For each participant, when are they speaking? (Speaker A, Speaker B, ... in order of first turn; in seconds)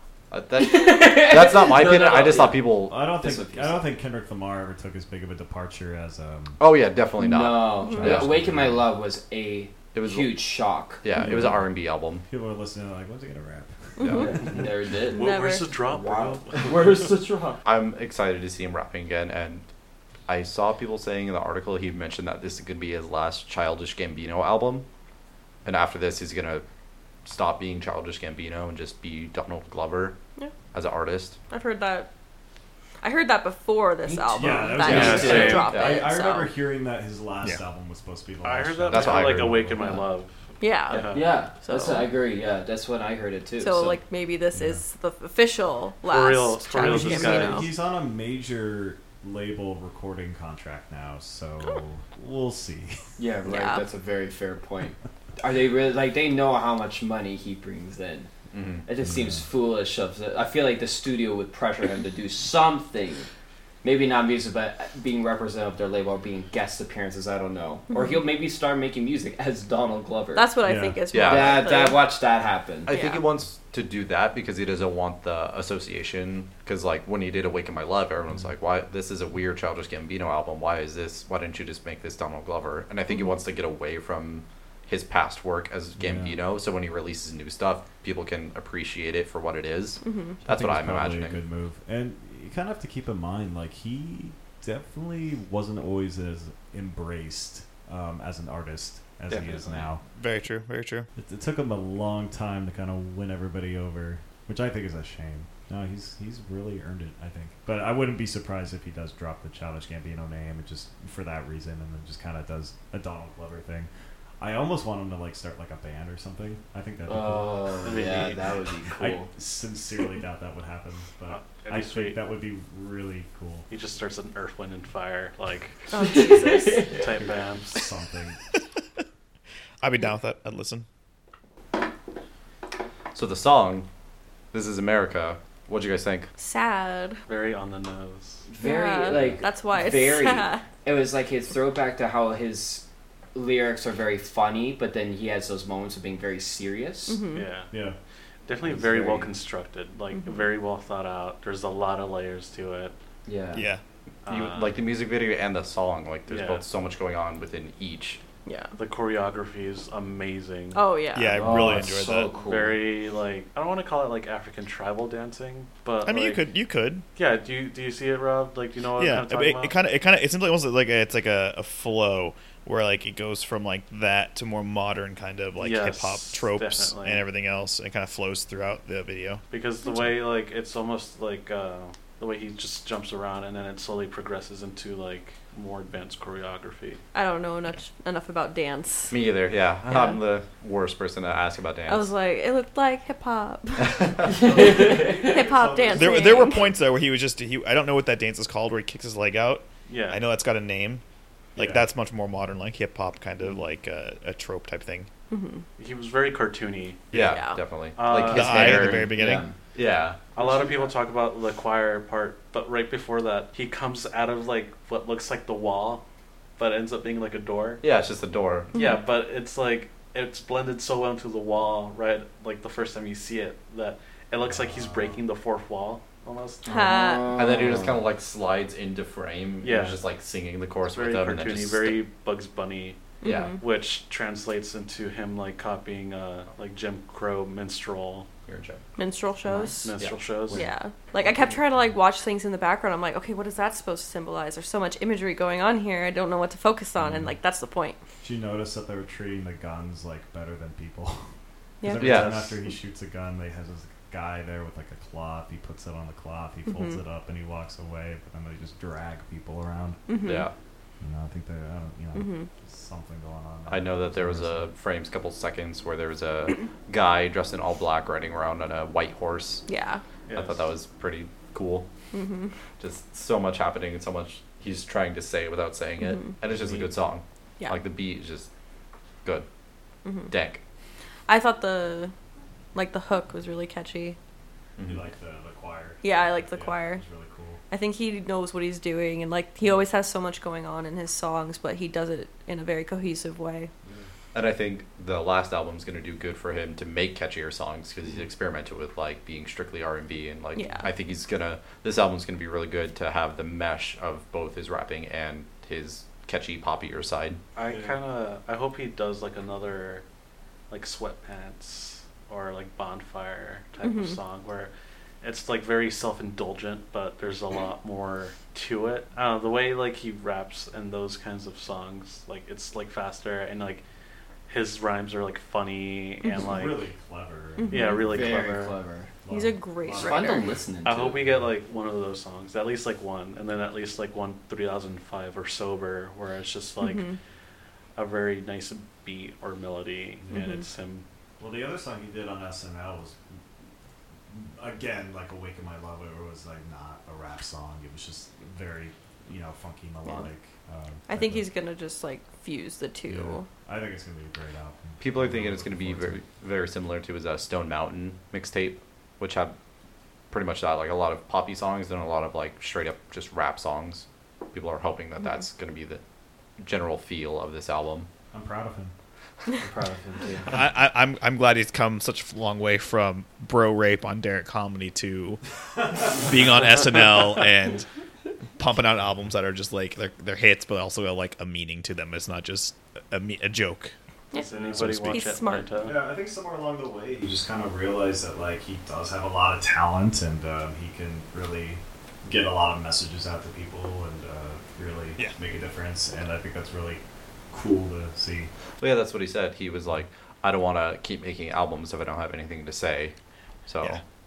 Speaker A: 0.3-2.9, 6.6-8.7, 9.9-10.4, 11.0-12.2, 14.0-14.3, 17.6-19.6, 20.3-24.9, 25.6-26.6, 27.2-30.2, 30.7-31.4, 34.8-36.1, 38.9-39.6, 58.5-58.9, 71.1-71.7, 72.9-91.4, 99.3-99.8, 133.1-133.9, 134.5-136.3, 154.2-158.2, 189.1-192.1, 193.8-194.2, 207.1-209.1, 209.7-210.2, 217.8-218.7, 227.3-232.0, 233.2-233.6, 238.5-238.8, 252.0-252.5, 260.2-260.5, 263.7-269.6, 270.3-271.9, 272.8-278.5, 280.3-280.6, 284.8-285.0, 294.3-307.4, 355.0-359.6, 360.3-366.0, 366.6-368.1, 398.8-403.1, 403.7-404.0
Speaker B: 0.6-3.9, 7.2-11.0, 14.1-15.3, 15.8-17.6, 34.0-35.5, 41.1-44.0, 53.2-58.3, 58.8-63.3, 63.8-70.5, 71.2-72.9, 117.0-119.3, 126.0-127.1, 138.5-147.2, 148.7-149.3, 153.2-153.6, 161.3-162.8, 194.3-195.3, 209.1-209.6, 226.7-228.0, 327.8-329.1, 329.9-331.2, 369.6-370.5
Speaker C: 2.9-6.6, 8.0-8.8, 11.2-11.7, 12.2-14.0, 34.4-40.0, 44.5-44.8, 46.7-53.0, 59.0-59.5, 70.6-71.0, 86.0-86.4, 90.4-100.0, 101.2-113.9, 114.4-118.0, 119.0-123.7, 127.2-128.4, 147.7-147.9, 194.2-196.4, 201.6-201.8, 210.4-210.7, 224.5-225.2, 247.0-247.3, 248.2-251.2, 251.8-260.0, 261.0-264.7, 284.8-287.6, 307.7-308.0, 326.4-328.4, 329.2-330.6, 331.2-331.5, 341.4-343.2, 344.3-351.5, 353.1-356.2, 368.3-368.9, 375.8-376.1, 384.4-385.0, 385.8-398.5
Speaker D: 7.8-8.2, 14.0-14.4, 15.1-15.7, 31.5-32.1, 33.0-36.5, 40.6-42.1, 43.6-47.7, 53.5-53.8, 67.9-68.2, 70.3-72.1, 72.9-73.2, 83.1-83.3, 90.0-90.4, 125.9-127.0, 136.4-137.2, 138.6-140.6, 147.1-147.5, 150.1-150.5, 158.4-158.7, 160.7-161.4, 187.1-189.2, 189.9-190.2, 191.9-194.1, 194.7-196.7, 205.3-205.6, 207.3-207.6, 218.7-219.0, 226.6-227.3, 233.2-233.6, 239.0-240.0, 240.5-248.0, 251.8-252.3, 256.6-257.0, 260.1-260.5, 262.1-262.5, 269.7-270.0, 272.1-272.5, 276.0-276.4, 280.0-280.3, 281.3-282.1, 282.7-284.2, 286.0-287.0, 287.7-293.7, 300.6-300.9, 313.8-314.2, 326.2-326.5, 327.6-328.2, 329.3-330.6, 336.8-337.2, 340.3-340.6, 350.0-350.3, 351.1-353.5, 384.3-385.8
Speaker E: 15.1-17.0, 34.9-35.7, 38.4-41.3, 46.0-47.7, 117.8-118.4, 121.3-122.2, 123.7-127.8, 137.3-138.4, 147.3-147.7, 148.4-152.9, 154.2-154.7, 156.3-156.6, 158.8-160.8, 162.4-166.4, 167.2-169.7, 175.6-177.2, 179.5-187.0, 199.9-200.2, 205.8-207.1, 207.9-209.0, 210.3-216.0, 216.6-217.8, 218.7-226.7, 229.6-230.0, 230.9-238.3, 239.8-240.7, 270.3-270.6, 307.6-310.0, 310.7-314.7, 315.2-323.8, 324.5-326.8, 327.7-328.7, 330.8-337.0, 337.9-341.0, 384.3-386.0
Speaker F: 100.1-101.1, 129.8-130.8, 153.5-153.8, 161.1-162.3, 166.0-167.1, 169.0-179.4, 195.9-201.0, 201.6-205.1, 208.3-209.5, 370.5-375.4, 376.1-377.9, 378.6-383.9, 384.8-385.1